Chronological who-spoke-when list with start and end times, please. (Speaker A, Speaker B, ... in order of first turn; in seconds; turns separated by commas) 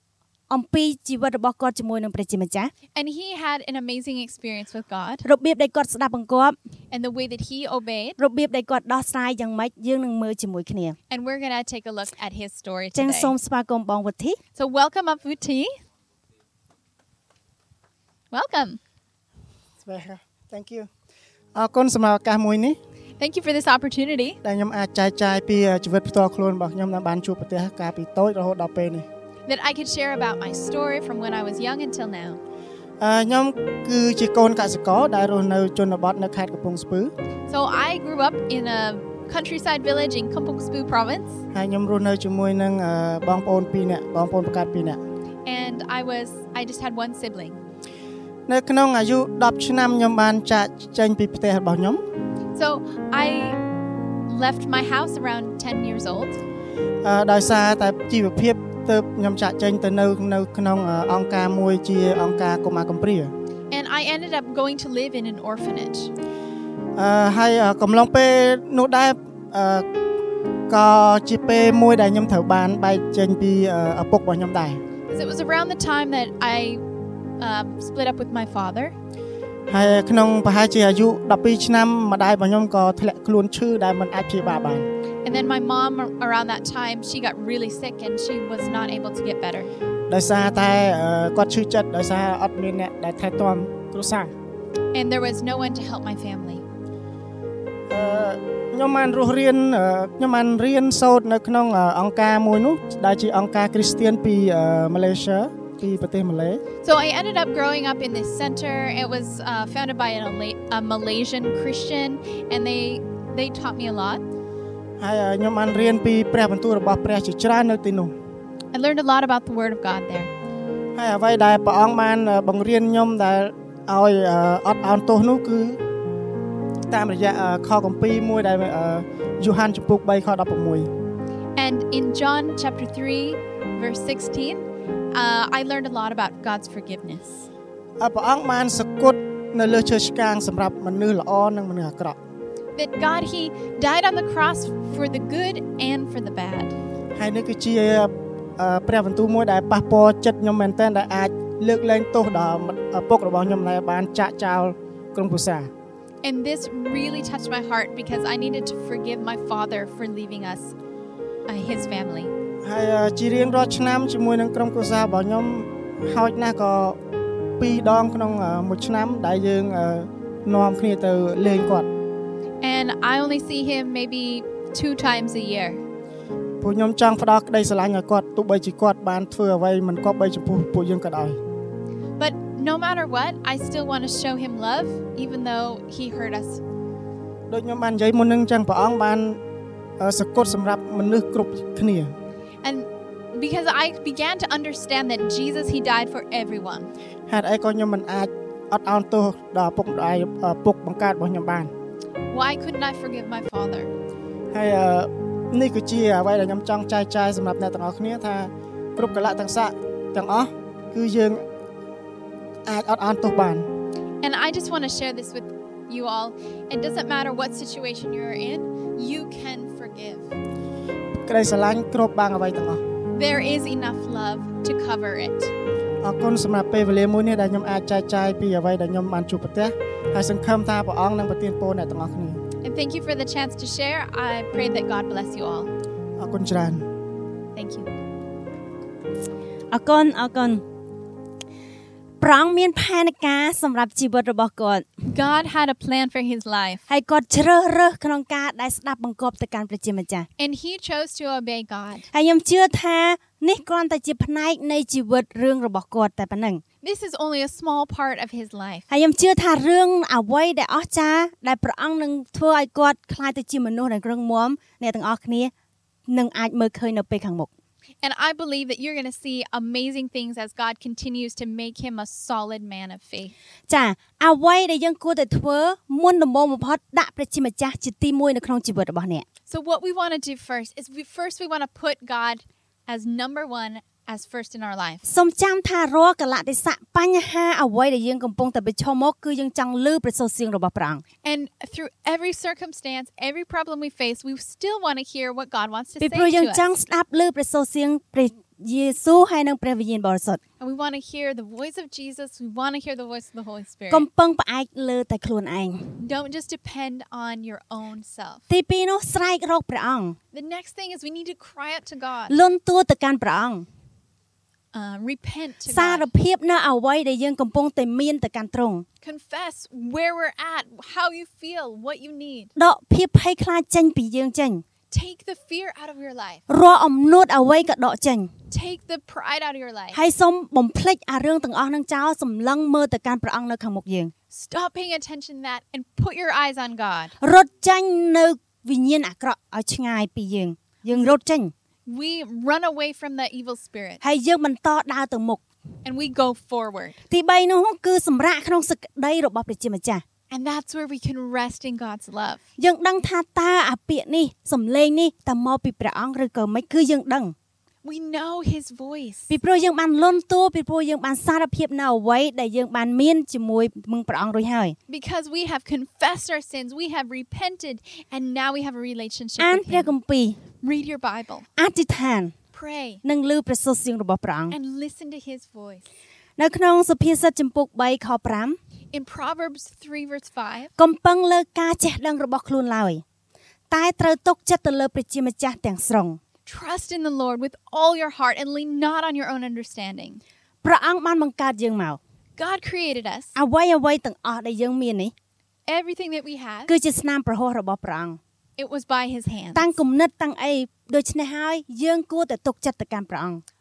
Speaker A: 0.5-2.7, Speaker B: 2.9-5.2, Speaker A: 5.2-6.5, Speaker B: 6.9-8.2, Speaker A: 8.2-10.9, Speaker B: 11.1-13.3, Speaker A: 12.9-14.4, Speaker B: 14.6-15.7, Speaker B: 18.3-18.8, Speaker C: 19.8-20.9, Speaker C: 21.5-22.8, Speaker B: 23.2-24.4, Speaker C: 24.4-29.1, Speaker B: 29.5-32.4, Speaker C: 33.0-37.1, Speaker B: 37.5-41.4, Speaker C: 41.5-45.0, Speaker B: 45.4-47.6, Speaker C: 48.5-52.0, Speaker B: 52.5-53.6, Speaker B: 54.3-56.4, Speaker C: 57.0-63.3, Speaker B: 63.7-66.1, Speaker C: 67.0-69.8, Speaker C: 70.7-74.8, Speaker B: 75.1-76.8, Speaker B: 77.4-78.9, Speaker C: 79.7-84.9, Speaker B: 85.2-89.7, Speaker C: 90.1-94.3, Speaker B: 94.9-96.6, Speaker C: 97.9-106.6, Speaker B: 106.8-114.2, Speaker C: 115.0-118.1, Speaker B: 118.7-120.3, Speaker C: 121.0-125.8, Speaker C: 126.9-130.9, Speaker B: 131.6-137.5, Speaker C: 138.0-142.2, Speaker B: 142.8-146.7, Speaker C: 147.2-155.7, Speaker B: 156.2-160.7, Speaker B: 161.5-162.3, Speaker C: 162.6-167.0, Speaker C: 167.6-171.9, Speaker B: 172.6-175.8, Speaker C: 176.6-181.4, Speaker B: 182.2-186.6, Speaker C: 187.5-189.4, Speaker C: 190.0-192.1, Speaker B: 192.6-196.9, Speaker C: 197.3-201.7, Speaker B: 202.3-203.9, Speaker C: 204.5-211.4, Speaker C: 212.7-213.7, Speaker B: 214.2-220.3, Speaker C: 221.2-222.8, Speaker B: 223.1-225.5, Speaker C: 226.0-232.4, Speaker B: 232.6-235.7, Speaker C: 236.2-236.8, Speaker B: 237.5-237.9, Speaker A: 239.7-240.6, Speaker A: 242.2-244.9, Speaker B: 245.1-246.8, Speaker A: 246.9-250.3, Speaker B: 250.4-252.1, Speaker A: 252.1-256.6, Speaker B: 256.8-258.9, Speaker A: 258.9-265.5, Speaker A: 266.1-267.5, Speaker B: 268.0-273.3, Speaker A: 273.7-279.2, Speaker B: 279.5-285.0, Speaker A: 285.0-291.0, Speaker B: 291.2-296.7, Speaker A: 296.0-300.4, Speaker B: 300.6-304.1, Speaker A: 303.9-305.9, Speaker B: 306.0-308.4, Speaker A: 308.5-310.2, Speaker B: 310.3-312.4, Speaker A: 312.3-313.6, Speaker B: 314.7-316.1, Speaker A: 315.7-318.8, Speaker B: 319.0-322.5, Speaker A: 322.6-324.6, Speaker B: 324.9-326.4, Speaker A: 326.5-328.3, Speaker B: 328.5-330.0, Speaker A: 329.9-334.1, Speaker B: 334.3-337.1, Speaker A: 337.2-341.5, Speaker B: 341.9-344.0, Speaker A: 344.0-345.4, Speaker B: 345.8-347.0, Speaker A: 347.1-350.0, Speaker B: 350.3-352.4, Speaker A: 352.6-357.3, Speaker B: 357.8-359.3, Speaker A: 359.3-364.8, Speaker B: 364.9-369.9, Speaker A: 369.4-370.4, Speaker B: 370.6-371.5, Speaker A: 371.6-372.3, Speaker B: 372.5-373.0, Speaker A: 373.0-374.6, Speaker B: 374.5-375.8, Speaker A: 376.4-378.6, Speaker B: 378.9-380.7, Speaker A: 380.8-383.0, Speaker A: 383.7-386.2, Speaker B: 386.4-390.2, Speaker A: 390.6-392.0, Speaker B: 392.4-393.3, Speaker A: 393.3-395.1, Speaker B: 395.7-396.7, Speaker A: 396.7-398.2, Speaker B: 398.6-399.7, Speaker A: 399.5-403.4